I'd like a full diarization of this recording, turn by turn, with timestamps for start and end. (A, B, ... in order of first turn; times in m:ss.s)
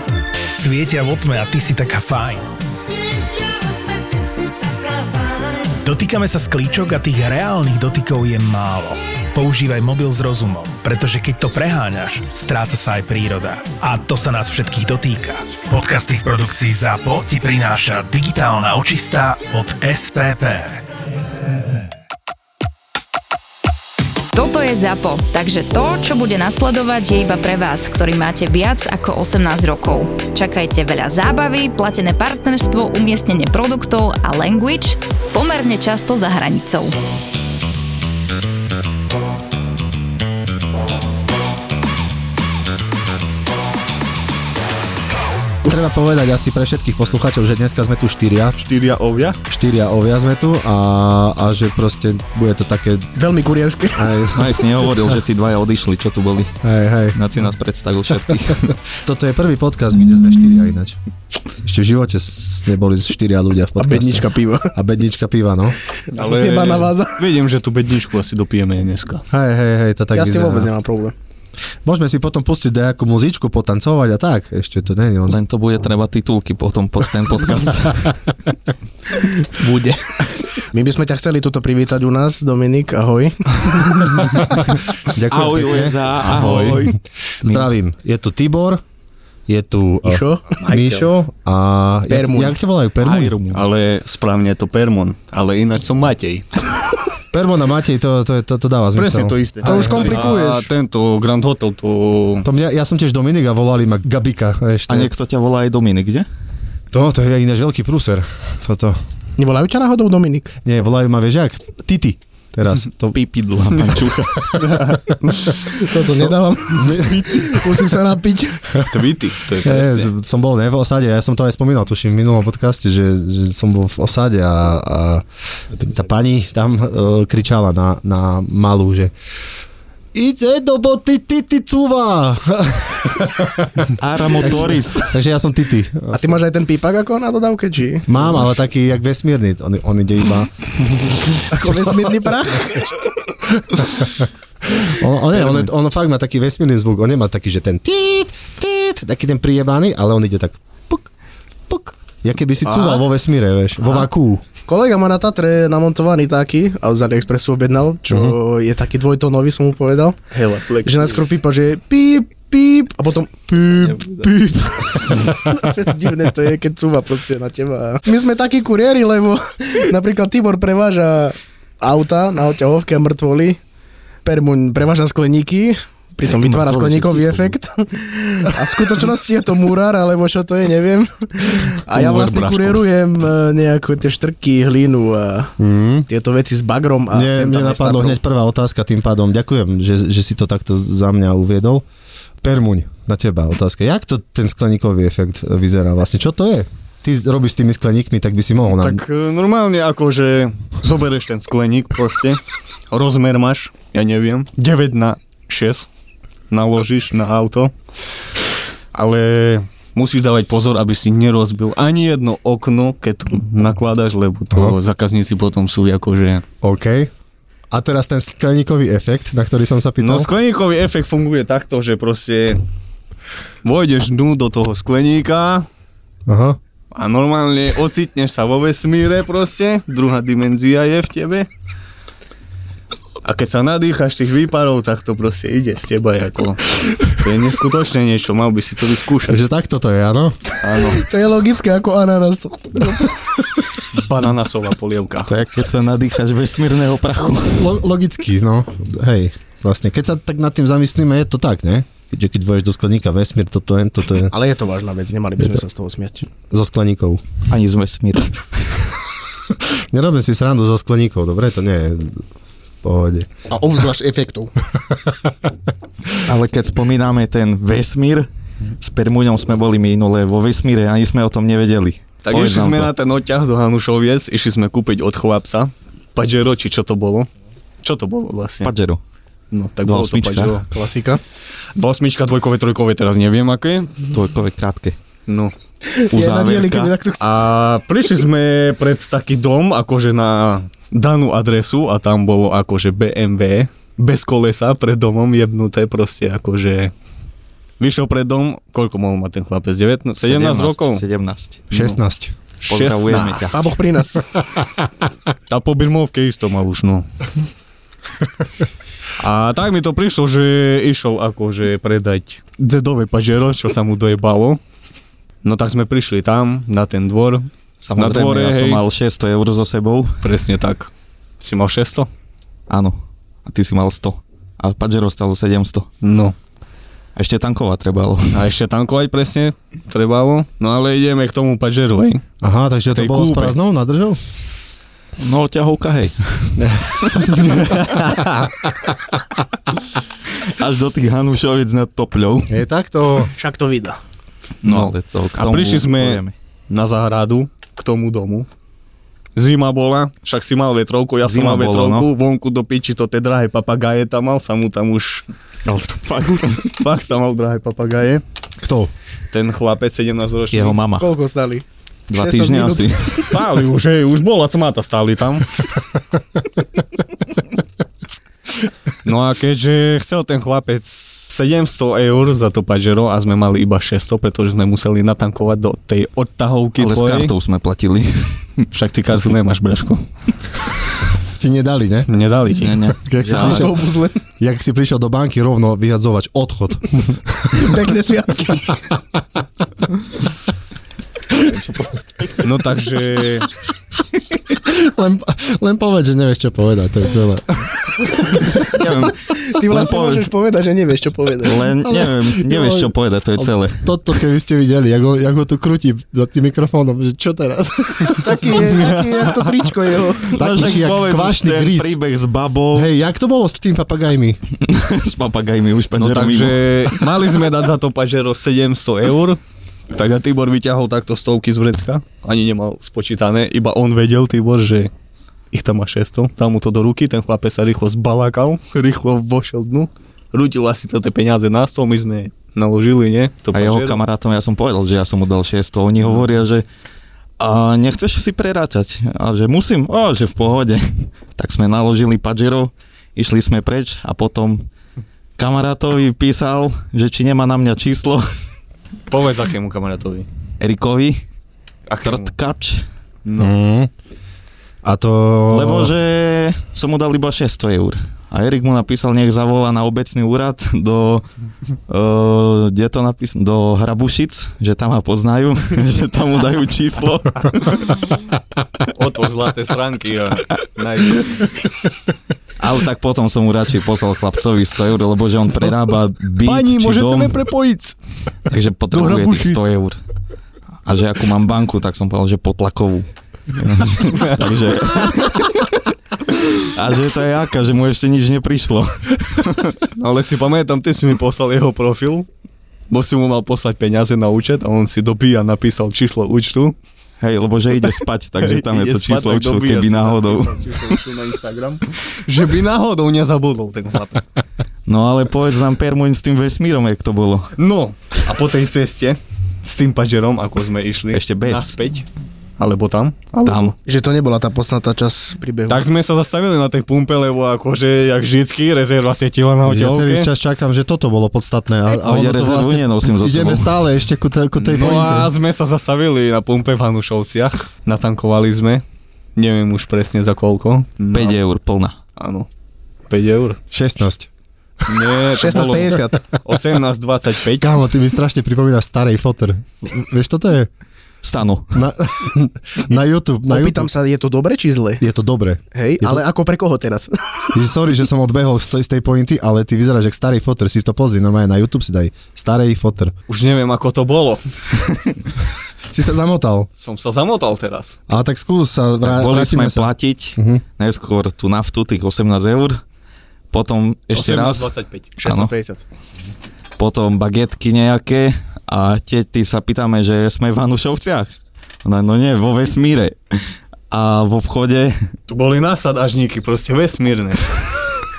0:00.5-0:02.6 A
0:05.5-0:20.8 A
0:24.3-0:36.9 B
0:45.6-0:48.6 C
0:48.5-0:49.4 D
0:49.5-0:53.1 C
0:53.1-0:54.3 E
0:53.9-0:55.2 C
0:54.3-0:56.5 F
0:56.6-0:57.2 C
0:57.1-0:58.7 F
0:58.5-1:01.0 C
1:01.6-1:05.8 C
1:03.8-1:04.7 E
1:06.1-1:07.2 E
1:06.1-1:09.2 D
1:09.3-1:10.7 C
1:10.1-1:11.1 E
1:11.8-1:15.4 C
1:15.3-1:18.2 F
1:19.1-1:24.4 E
1:24.6-1:26.0 C
1:25.3-1:27.7 F
1:26.2-1:26.9 D
1:27.4-1:28.8 C
1:29.5-1:33.4 C
1:30.0-1:30.8 E
1:32.1-1:32.6 E
1:33.0-1:33.7 F
1:33.5-1:36.5 D
1:37.3-1:40.2 C
1:38.9-1:42.4 D
1:39.6-1:40.7 E
1:42.4-1:45.1 C
1:44.9-1:46.2 F
1:46.9-1:49.0 C
1:49.4-1:50.5 E
1:50.6-1:53.2 C
1:53.1-1:54.7 F
1:54.6-1:58.8 E
1:56.7-1:57.8 C
1:58.8-2:00.1 D
1:59.5-2:09.1 C
2:10.1-2:16.4 C
2:14.0-2:15.2 F
2:16.1-2:18.2 E
2:18.1-2:21.0 C
2:21.4-2:23.0 E
2:21.5-2:22.1 C
2:23.6-2:24.1 C
2:24.7-2:31.1 C
2:31.7-2:34.4 C
2:32.7-2:33.0 D
2:34.6-2:40.2 E
2:38.1-2:38.4 C
2:40.3-2:41.3 D
2:40.8-2:53.6 E
2:54.2-3:05.5 E
2:56.3-2:57.5 F
3:01.9-3:02.9 D
3:05.6-3:06.1 C
3:06.1-3:08.2 E
3:07.1-3:11.8 C
3:12.4-3:19.0 C
3:18.7-3:22.4 D
3:22.9-3:25.9 D
3:26.5-3:27.7 D
3:28.9-3:36.4 D
3:34.5-3:34.8 C
3:36.6-3:37.1 C
3:37.7-3:40.3 C
3:40.0-3:42.6 D
3:43.6-3:45.6 D
3:46.3-3:46.6 C
3:46.9-3:51.5 D
3:53.2-3:59.4 D
3:59.2-4:00.4 C
4:00.6-4:01.0 D
4:00.8-4:03.1 E
4:03.9-4:05.3 D
4:05.3-4:07.7 F
4:07.5-4:14.3 C
4:14.3-4:16.2 E
4:16.5-4:17.2 C
4:17.5-4:18.8 F
4:19.6-4:22.2 C
4:22.8-4:23.3 C
4:23.5-4:24.5 E
4:26.2-4:28.3 F
4:28.8-4:32.9 F
4:32.2-4:37.3 D
4:37.8-4:38.7 D
4:38.6-4:39.0 F
4:39.5-4:40.9 D
4:39.8-4:40.6 F
4:40.7-4:41.2 E
4:41.7-4:44.1 D
4:44.1-4:45.0 F
4:45.3-4:45.5 D
4:45.8-4:47.2 E
4:46.1-4:46.9 F
4:47.2-4:56.9 D
4:57.8-5:01.0 D
5:00.2-5:01.7 F
5:01.7-5:02.3 C
5:01.7-5:02.0 D
5:02.6-5:03.7 D
5:02.6-5:03.6 F
5:03.5-5:04.3 E
5:05.5-5:07.1 D
5:09.2-5:14.6 D
5:15.4-5:18.8 D
5:17.8-5:20.1 F
5:20.2-5:22.1 D
5:22.7-5:25.9 F
5:26.0-5:26.4 D
5:27.2-5:28.5 F
5:28.3-5:32.2 D
5:32.4-5:34.2 C
5:32.9-5:33.5 D
5:35.2-5:37.2 F
5:37.5-5:38.2 D
5:40.4-5:42.6 F
5:42.5-5:43.3 C
5:43.4-5:44.0 E
5:44.6-5:46.3 F
5:44.6-5:48.5 D
5:49.4-5:55.2 D
5:51.2-5:52.1 F
5:55.6-5:56.7 F
5:56.6-5:58.2 D
5:58.6-5:58.9 C
5:59.3-6:00.8 D
6:00.5-6:01.1 F
6:01.0-6:03.1 E
6:02.1-6:03.3 F
6:03.2-6:05.7 D
6:09.0-6:17.3 D
6:16.8-6:18.6 F
6:18.7-6:20.0 D
6:21.4-6:22.1 C
6:22.1-6:22.8 D
6:22.6-6:23.7 F
6:23.0-6:23.8 C
6:23.3-6:24.2 E
6:24.4-6:27.8 C
6:27.5-6:28.8 E
6:32.4-6:33.5 D
6:34.6-6:38.6 C
6:38.5-6:40.3 F
6:39.3-6:41.6 E
6:41.4-6:43.8 F
6:41.8-6:48.8 C
6:48.2-6:50.4 E
6:50.3-6:52.0 C
6:50.3-6:52.9 F
6:52.7-6:54.4 C
6:54.6-6:56.9 F
6:56.0-6:59.4 D
6:59.9-7:04.9 D
7:05.5-7:14.0 D
7:13.5-7:16.6 F
7:17.4-7:24.6 F
7:25.4-7:28.2 F
7:29.1-7:30.3 D
7:30.6-7:31.2 F
7:31.9-7:32.3 D
7:32.0-7:32.8 F
7:33.2-7:33.5 D
7:33.4-7:33.9 C
7:34.8-7:35.9 C
7:35.5-7:41.2 F
7:41.9-7:48.0 F
7:48.9-7:51.5 D
7:52.6-7:57.4 F
7:56.4-7:58.0 D
7:58.5-8:00.0 F
7:58.9-7:59.7 D
8:00.8-8:05.7 F
8:06.3-8:09.8 F
8:10.0-8:12.3 D
8:12.9-8:16.8 D
8:17.2-8:20.6 F
8:18.4-8:24.2 D
8:24.9-8:27.5 F
8:27.6-8:32.1 D
8:31.1-8:31.7 F
8:32.6-8:33.7 D
8:33.4-8:33.7 F
8:33.8-8:35.9 E
8:35.7-8:40.3 D
8:39.6-8:45.3 C
8:41.9-8:43.7 F
8:44.6-8:48.8 D
8:49.4-8:51.4 D
8:51.1-8:52.0 F
8:52.2-8:52.5 D
8:53.1-8:53.6 D
8:53.7-8:54.3 C
8:54.9-8:57.7 D
8:55.3-8:56.2 E
8:57.5-9:00.7 C
9:01.2-9:01.8 F
9:01.7-9:03.9 C
9:03.5-9:05.0 E
9:05.0-9:06.2 C
9:05.7-9:07.5 E
9:07.5-9:13.1 C
9:13.3-9:15.2 D
9:15.9-9:16.7 C
9:16.8-9:18.0 D
9:18.1-9:20.6 C
9:19.0-9:22.8 F
9:23.5-9:24.7 F
9:24.1-9:25.0 D
9:25.2-9:25.8 E
9:25.2-9:25.5 F
9:26.8-9:33.2 F
9:33.9-9:35.0 F
9:35.3-9:37.6 D